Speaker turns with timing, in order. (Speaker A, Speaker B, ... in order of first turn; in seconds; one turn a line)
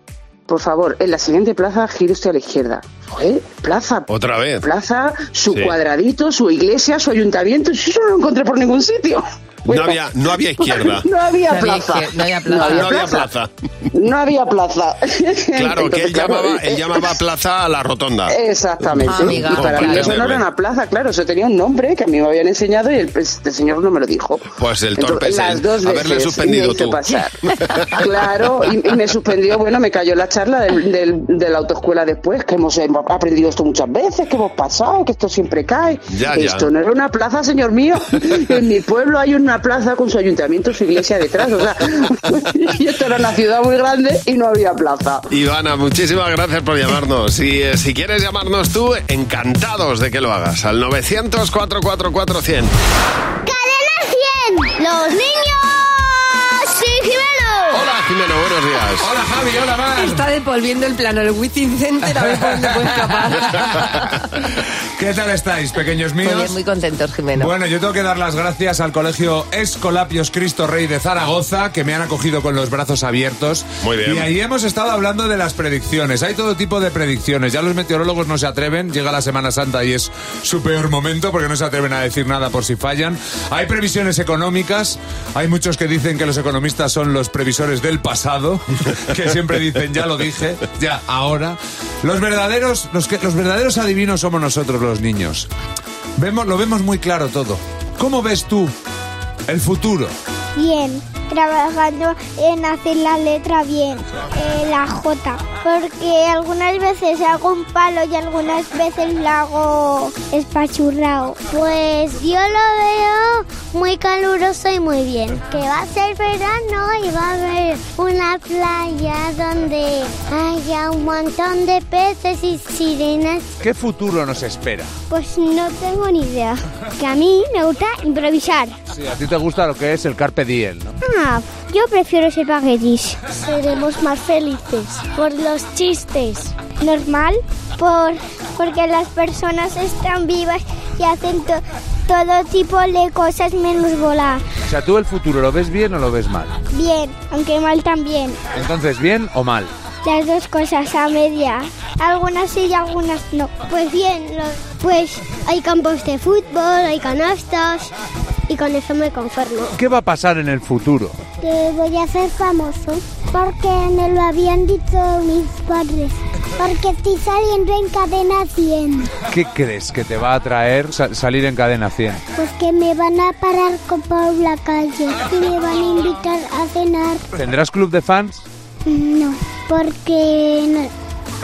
Speaker A: 0.5-4.1
Speaker B: 4.1-4.7
Speaker A: 4.6-10.0
Speaker B: 5.5-5.7
Speaker B: 9.7-11.1
Speaker A: 10.6-13.3
Speaker C: 11.5-13.0
Speaker B: 12.6-13.5
Speaker A: 13.9-17.1
Speaker B: 15.5-18.3
Speaker A: 18.3-24.4
Speaker B: 18.9-20.4
Speaker C: 19.0-20.2
Speaker B: 24.6-27.0
Speaker A: 25.0-27.3
Speaker A: 27.9-45.3
Speaker B: 36.1-36.7
Speaker B: 45.3-52.7
Speaker D: 53.5-57.8
Speaker B: 57.7-59.1
Speaker E: 59.0-60.2
Speaker C: 59.9-64.1
Speaker E: 62.2-64.0
Speaker E: 65.0-66.6
Speaker C: 66.2-67.5
Speaker E: 67.3-95.5
Speaker B: 73.8-74.3
Speaker E: 96.2-98.7
Speaker E: 99.5-100.1
Speaker D: 100.5-123.5
Speaker E: 123.6-124.9
Speaker D: 125.1-128.8
Speaker E: 128.9-130.9
Speaker D: 131.0-144.4
Speaker E: 144.7-146.6
Speaker D: 146.7-148.4
Speaker E: 148.5-149.7
Speaker D: 150.0-157.9
Speaker D: 158.5-159.7
Speaker E: 159.7-161.2
Speaker D: 161.4-169.1
Speaker E: 169.3-172.2
Speaker D: 172.3-177.2
Speaker E: 177.3-178.4
Speaker D: 178.8-180.9